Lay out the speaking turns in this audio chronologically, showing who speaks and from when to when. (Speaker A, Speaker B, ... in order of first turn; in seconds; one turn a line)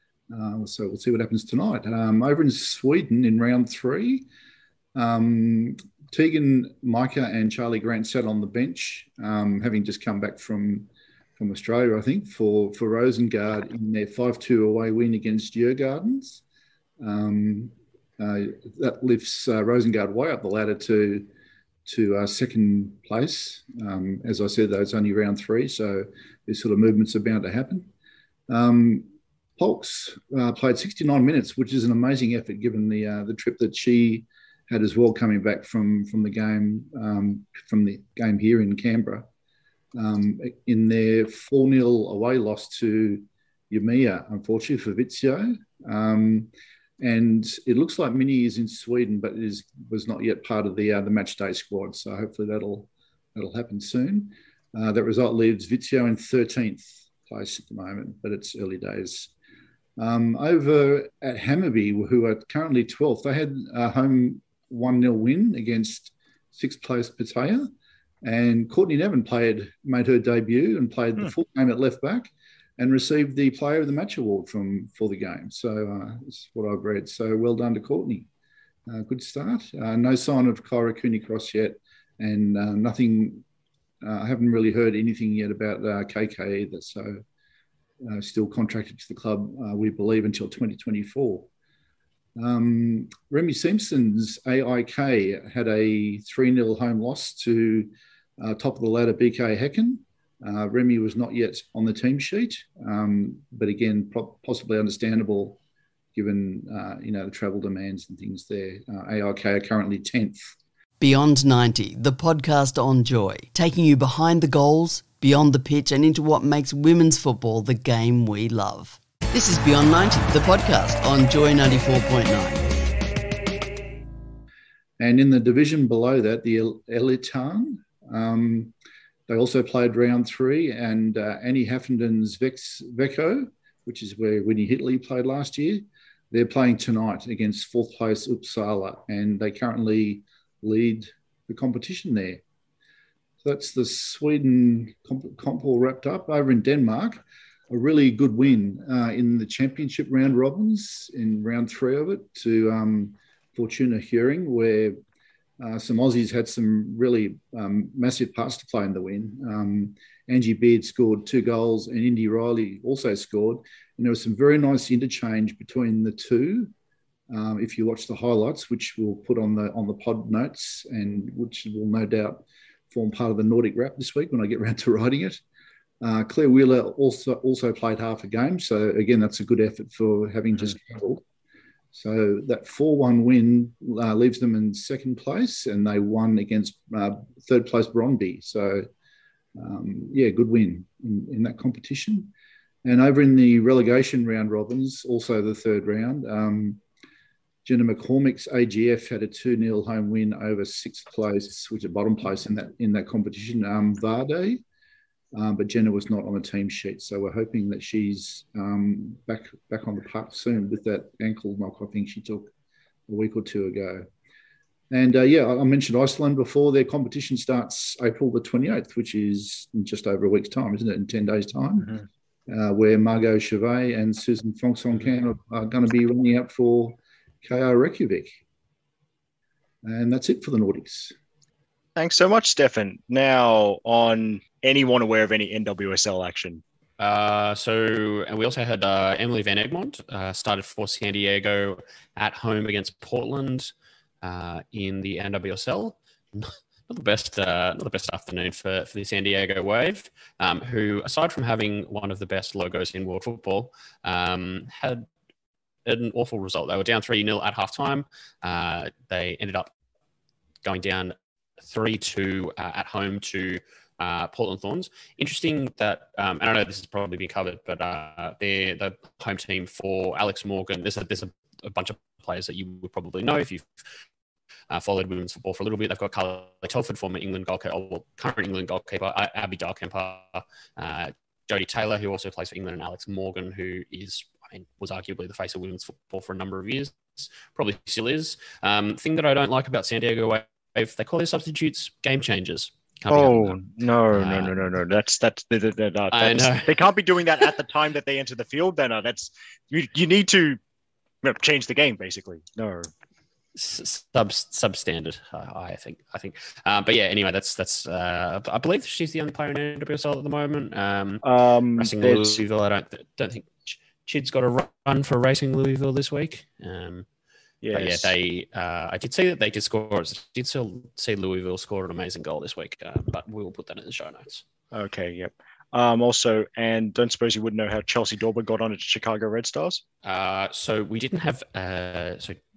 Speaker A: 0.3-4.3
Speaker A: 4.9-16.4
Speaker A: 17.0-21.3
Speaker A: 21.9-27.9
Speaker A: 28.5-39.3
Speaker A: 39.9-59.3
Speaker A: 60.0-67.7
Speaker A: 68.2-78.3
Speaker A: 78.9-83.4
Speaker A: 84.0-87.2
Speaker A: 88.0-91.5
Speaker A: 92.4-105.6
Speaker A: 106.1-110.5
Speaker B: 111.0-122.7
Speaker A: 125.0-128.7
Speaker A: 129.3-142.4
Speaker A: 143.4-155.0
Speaker A: 155.6-166.7
Speaker A: 167.3-175.4
Speaker A: 176.0-181.2
Speaker A: 181.9-188.9
Speaker A: 189.6-192.3
Speaker A: 192.8-196.8
Speaker A: 197.6-204.6
Speaker A: 205.3-212.5
Speaker A: 213.1-214.1
Speaker A: 214.9-221.9
Speaker A: 222.5-228.3
Speaker A: 229.8-231.1
Speaker C: 231.9-236.6
Speaker D: 237.0-255.1
Speaker D: 255.8-259.7
Speaker D: 260.6-273.7
Speaker D: 274.7-293.6
Speaker C: 293.1-300.6
Speaker D: 294.1-294.6
Speaker D: 296.1-296.8
Speaker C: 301.2-302.9
Speaker D: 303.6-311.2
Speaker C: 311.2-312.4
Speaker D: 311.8-317.1
Speaker C: 317.6-318.1
Speaker D: 317.7-324.4
Speaker C: 324.7-329.8
Speaker D: 330.0-332.4